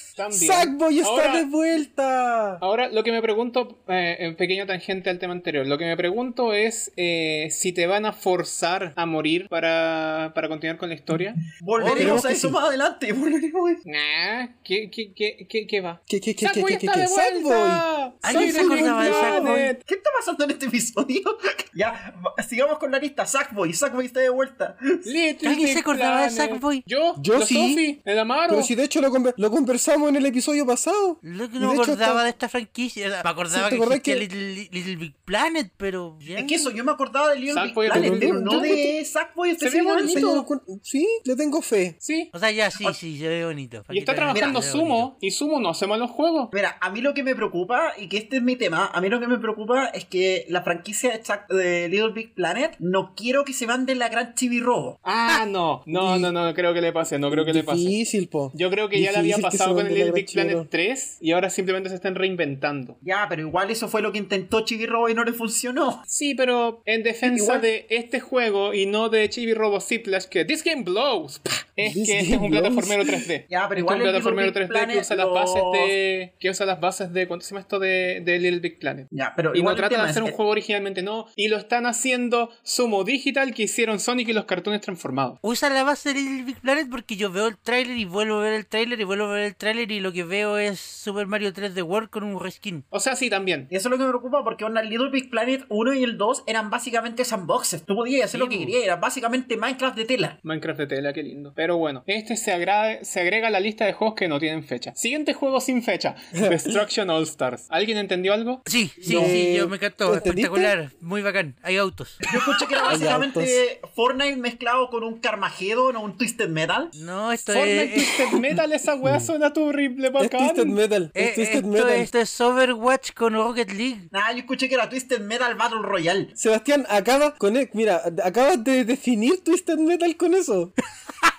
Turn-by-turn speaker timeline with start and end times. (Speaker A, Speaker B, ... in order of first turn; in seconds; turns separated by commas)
Speaker A: 0.1-1.4, Speaker B: 0.3-2.6, Speaker A: 2.6-11.4, Speaker C: 11.5-13.8, Speaker D: 11.8-12.2, Speaker B: 11.8-12.6, Speaker A: 13.8-19.8, Speaker B: 16.1-19.6, Speaker D: 18.2-19.7, Speaker C: 19.8-25.1, Speaker A: 25.0-28.7, Speaker D: 25.4-26.8, Speaker B: 27.2-27.8, Speaker B: 28.5-32.2, Speaker D: 31.2-36.7, Speaker B: 33.5-34.2, Speaker C: 36.3-40.3, Speaker A: 37.5-38.8, Speaker B: 37.9-38.9, Speaker A: 39.6-40.5, Speaker B: 40.0-42.0, Speaker A: 42.0-42.3, Speaker D: 42.3-45.1, Speaker A: 43.9-46.5, Speaker C: 44.3-44.6, Speaker C: 46.5-55.0, Speaker A: 55.0-58.0, Speaker B: 55.9-56.3, Speaker B: 57.3-60.7, Speaker A: 58.5-63.0, Speaker C: 63.0-66.0, Speaker A: 66.1-85.4, Speaker C: 67.2-67.7, Speaker B: 71.8-73.2, Speaker C: 73.5-75.9, Speaker C: 79.1-80.4, Speaker D: 85.4-92.8, Speaker A: 92.9-93.7, Speaker C: 93.7-100.4, Speaker D: 98.3-98.7, Speaker A: 100.4-108.6, Speaker B: 106.3-106.8, Speaker D: 108.7-112.2, Speaker B: 109.0-110.7, Speaker C: 109.0-109.4, Speaker C: 112.3-116.9, Speaker B: 112.9-113.6, Speaker D: 116.9-118.2, Speaker A: 117.4-120.8, Speaker B: 119.0-119.3, Speaker B: 120.2-122.1, Speaker D: 121.2-124.1, Speaker C: 124.1-126.3, Speaker B: 126.4-130.7